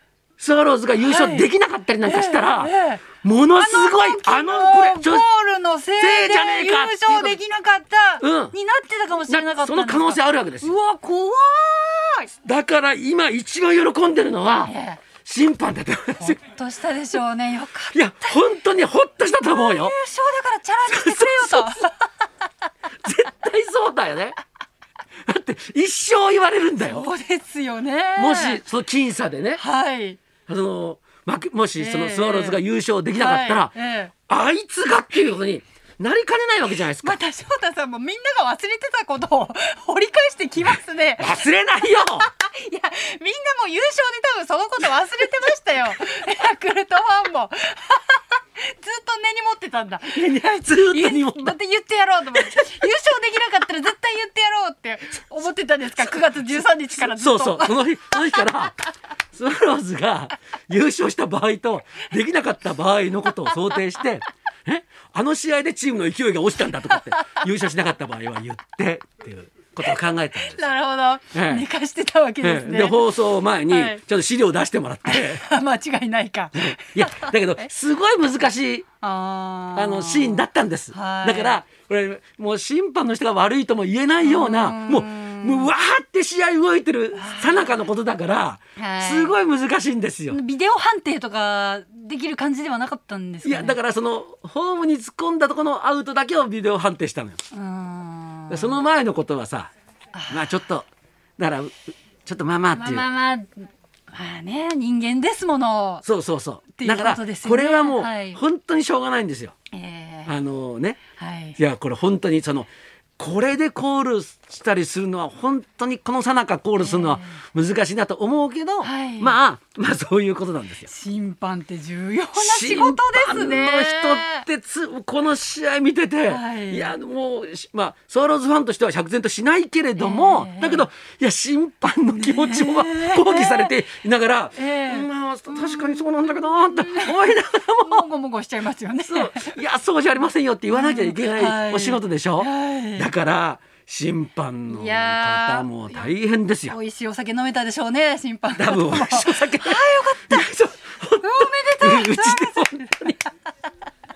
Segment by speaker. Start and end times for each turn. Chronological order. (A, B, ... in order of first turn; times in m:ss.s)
0:00.4-0:05.2 A
0:01.0-0:01.5 B
0:02.0-0:12.3 B
0:06.0-0:07.4 A
0:08.2-0:08.6 A
0:09.3-0:10.7 A
0:12.4-0:16.4 A
0:14.6-0:15.1 B
0:16.2-0:18.4 B
0:17.9-0:19.9 A
0:19.4-0:21.9 B
0:20.9-0:21.9 A
0:23.0-0:24.4 A
0:25.3-0:27.1 A
0:26.8-0:28.6 B
0:28.1-0:29.6 A
0:29.6-0:30.2 B
0:30.4-0:37.2 A
0:31.8-0:32.6 B
0:33.1-0:34.1 B
0:37.0-0:58.7 B
0:41.2-0:42.3 A
0:50.1-0:51.6 A
0:57.0-1:10.6 A
1:03.5-1:03.8 B
1:06.9-1:07.4 B
1:09.8-1:13.0 B
1:11.3-1:11.7 A
1:12.4-1:15.4 A
1:13.7-1:14.0 B
1:15.0-1:17.3 B
1:16.5-1:18.9 A
1:19.0-1:21.6 B
1:19.7-1:30.4 A
1:24.2-1:25.7 B
1:27.1-1:27.8 B
1:28.8-1:29.4 B
1:30.3-1:33.8 B
1:33.4-1:37.4 A
1:37.5-1:38.8 B
1:38.5-1:39.7 A
1:40.1-1:40.6 B
1:40.3-1:40.9 A
1:41.4-1:43.1 A
1:42.7-1:46.0 B
1:46.0-1:49.5 A
1:46.8-1:48.4 B
1:49.7-1:50.4 B
1:50.2-1:51.0 A
1:51.2-1:51.6 B
1:51.6-2:00.9 A
1:56.8-1:57.2 B
1:58.8-1:59.4 B
2:00.9-2:04.4 B
2:02.3-2:18.1 A
2:06.3-2:07.0 B
2:10.0-2:10.9 B
2:12.2-2:13.7 B
2:14.6-2:17.3 B
2:17.8-2:19.6 B
2:19.0-2:26.8 A
2:20.7-2:23.1 B
2:24.7-2:26.0 B
2:26.7-2:30.5 B
2:28.5-2:33.2 A
2:31.2-2:33.3 B